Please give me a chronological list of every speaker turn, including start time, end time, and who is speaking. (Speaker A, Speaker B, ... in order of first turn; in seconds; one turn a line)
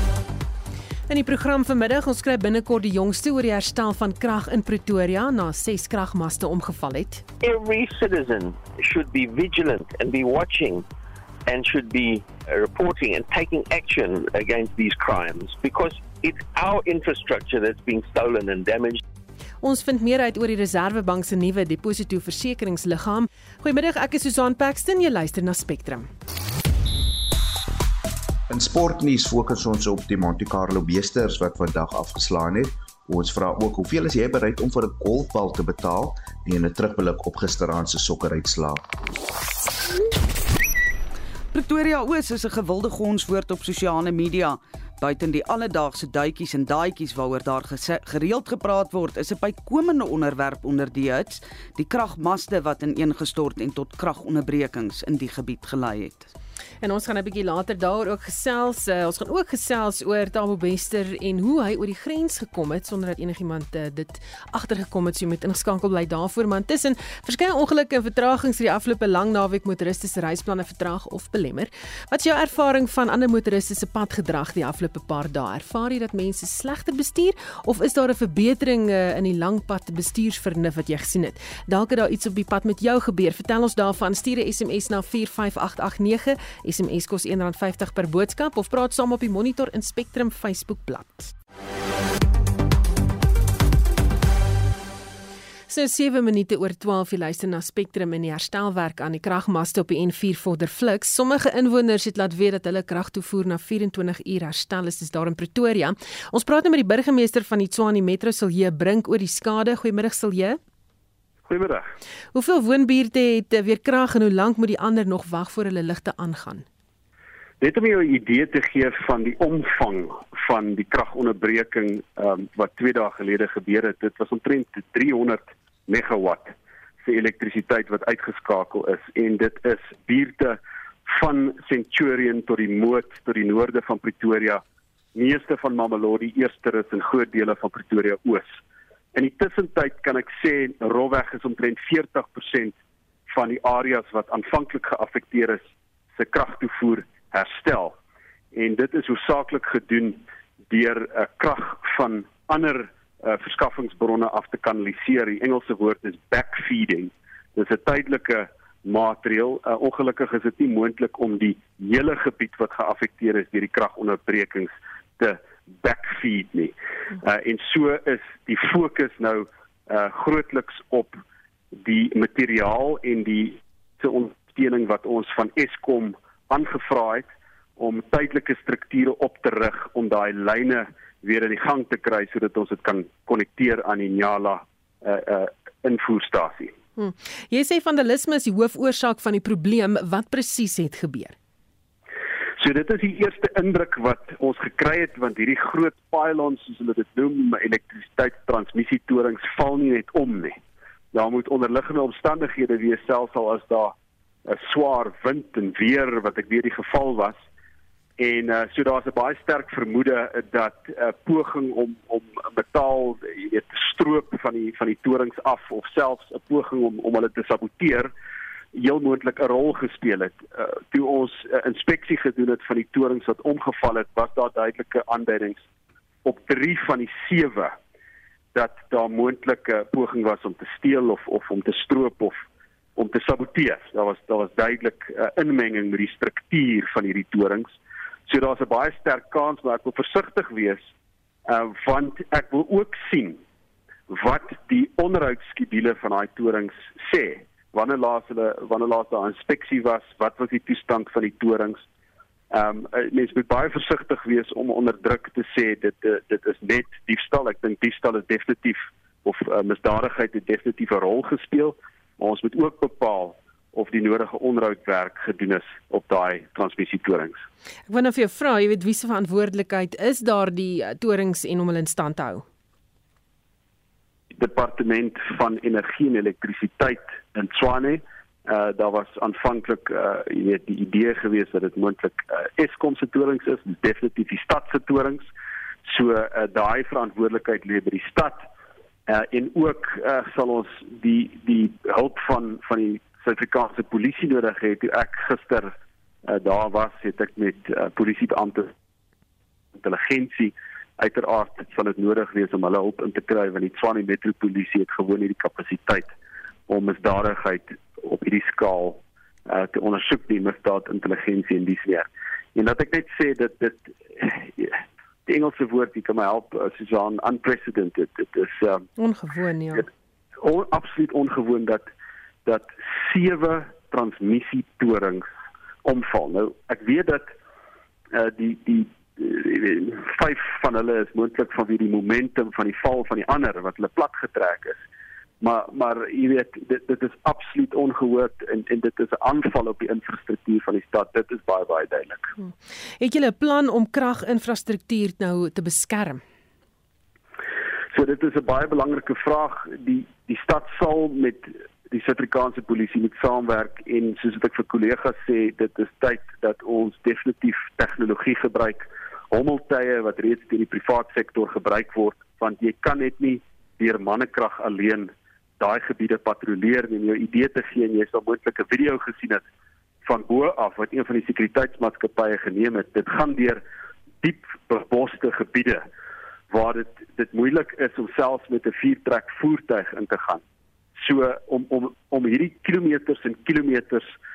Speaker A: 1.1-7.2
Speaker B: 7.4-10.8
Speaker B: 11.4-19.0
Speaker A: 19.6-26.1
Speaker C: 28.5-38.8
Speaker D: 41.5-56.3
Speaker A: 56.8-91.3
Speaker A: 95.7-110.6
Speaker E: 111.5-111.9
Speaker A: 112.3-116.7
Speaker E: 117.6-134.6
Speaker E: 135.1-138.5
Speaker E: 139.1-142.7
Speaker E: 143.3-145.6
Speaker E: 146.1-147.9
Speaker E: 148.5-171.2
Speaker E: 171.7-186.7
Speaker A: 187.0-191.3
Speaker E: 192.6-200.6
Speaker E: 201.1-203.9
Speaker E: 204.4-207.4
Speaker E: 208.2-218.1
Speaker E: 218.7-225.6
Speaker E: 226.2-227.8
Speaker E: 228.5-232.4
Speaker E: 232.9-237.8
Speaker E: 238.3-240.8
Speaker E: 241.4-243.4
Speaker E: 244.1-251.8
Speaker E: 252.5-267.4
Speaker A: 267.9-272.4
Speaker E: 274.3-285.3
Speaker E: 285.9-288.4
Speaker E: 289.1-295.7
Speaker E: 296.2-298.7
Speaker E: 299.8-306.1
Speaker E: 306.7-318.9
Speaker A: 319.0-319.9
Speaker E: 320.4-321.8
Speaker E: 322.4-325.3
Speaker E: 325.8-327.3
Speaker E: 328.1-334.8
Speaker E: 335.4-342.3
Speaker A: 342.4-346.2
Speaker E: 347.9-369.4
Speaker E: 370.0-373.6
Speaker E: 374.2-375.9
Speaker E: 376.5-380.4
Speaker E: 381.0-384.1